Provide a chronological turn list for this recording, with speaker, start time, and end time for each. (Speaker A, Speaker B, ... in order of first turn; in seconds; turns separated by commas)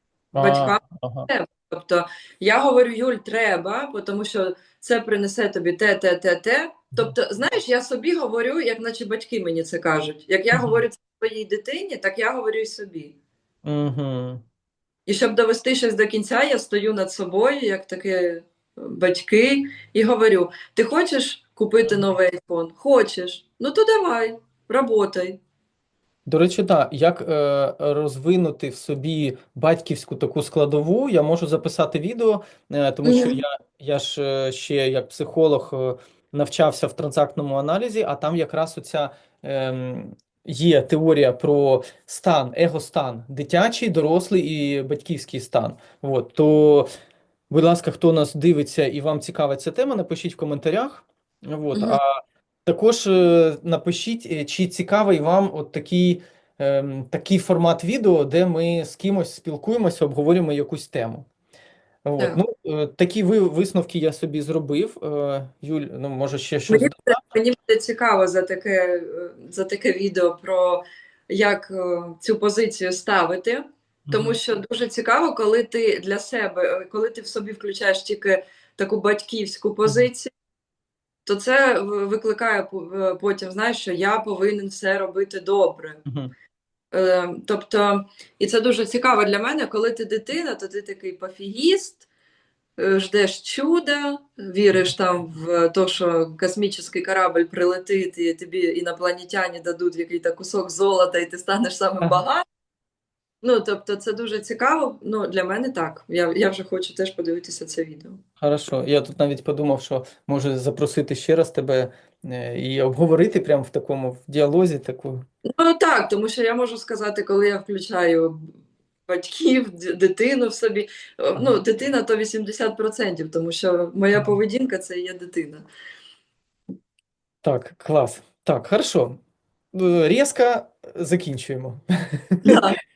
Speaker A: 0.3-1.3, Speaker B: 0.4-13.2, Speaker A: 10.5-10.8, Speaker A: 13.6-14.4, Speaker B: 15.1-25.4, Speaker A: 26.2-46.9, Speaker B: 33.0-33.4, Speaker A: 47.5-61.3, Speaker B: 51.7-52.0, Speaker A: 62.0-67.2, Speaker B: 66.7-80.3, Speaker A: 74.0-74.4, Speaker B: 81.2-86.0, Speaker A: 86.0-86.3, Speaker B: 86.9-92.0, Speaker B: 92.8-102.4, Speaker B: 103.4-108.2, Speaker A: 108.4-115.2, Speaker B: 115.4-118.5, Speaker B: 119.1-125.7, Speaker A: 127.4-129.2, Speaker A: 129.7-132.6, Speaker B: 132.4-132.8